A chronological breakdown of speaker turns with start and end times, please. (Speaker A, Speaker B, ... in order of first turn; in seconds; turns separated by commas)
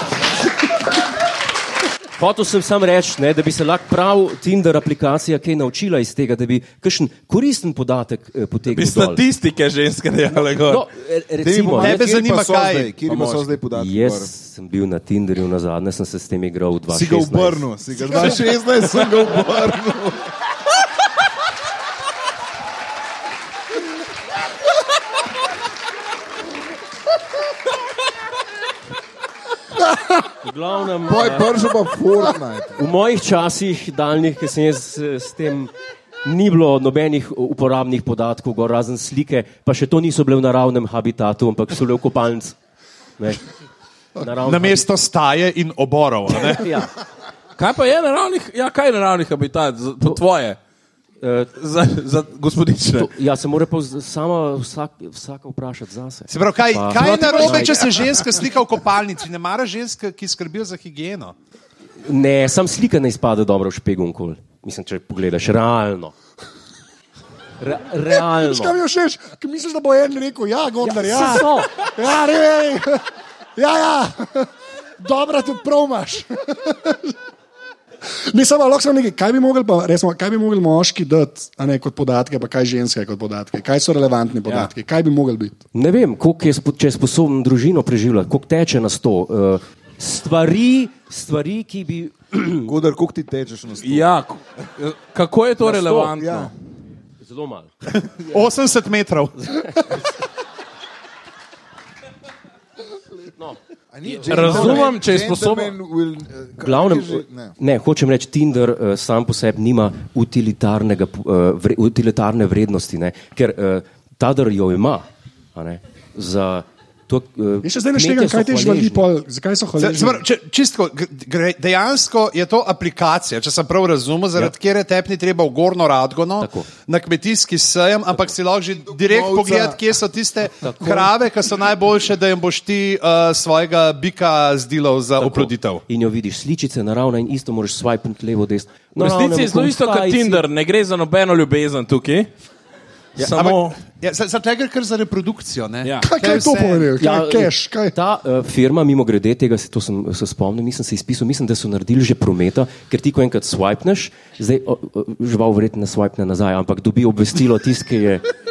Speaker A: 2.2-9.2, Speaker B: 8.7-10.9, Speaker A: 10.3-12.3, Speaker C: 11.4-14.3, Speaker D: 11.8-12.9, Speaker B: 13.1-13.5, Speaker A: 13.7-17.7, Speaker C: 16.9-20.3, Speaker E: 29.8-30.2, Speaker A: 30.4-31.5, Speaker C: 31.1-32.8, Speaker A: 32.8-35.7, Speaker A: 36.2-42.5, Speaker A: 43.2-43.4, Speaker A: 44.2-44.9, Speaker D: 44.4-46.7, Speaker A: 46.3-46.9, Speaker B: 47.6-50.6, Speaker A: 51.2-51.5, Speaker B: 51.5-53.1, Speaker A: 53.0-58.0, Speaker D: 56.3-61.4, Speaker A: 62.0-66.1, Speaker A: 67.6-68.8, Speaker E: 68.1-77.2, Speaker A: 70.8-71.7, Speaker E: 78.2-85.6, Speaker A: 85.7-92.7, Speaker C: 92.7-94.1, Speaker B: 93.8-96.5, Speaker A: 95.6-96.2, Speaker C: 96.2-96.5, Speaker A: 97.2-97.7, Speaker D: 98.0-99.5, Speaker A: 99.4-100.0, Speaker C: 103.9-107.5, Speaker B: 104.1-105.7, Speaker A: 104.3-104.9, Speaker A: 106.6-119.0, Speaker E: 117.6-120.2, Speaker D: 119.8-135.8, Speaker A: 126.4-126.7, Speaker C: 128.9-129.8, Speaker A: 130.6-131.1, Speaker A: 135.2-140.5, Speaker B: 139.0-142.3, Speaker B: 143.2-143.8, Speaker D: 143.4-146.9, Speaker B: 145.8-146.1, Speaker E: 146.0-147.9, Speaker A: 147.0-158.2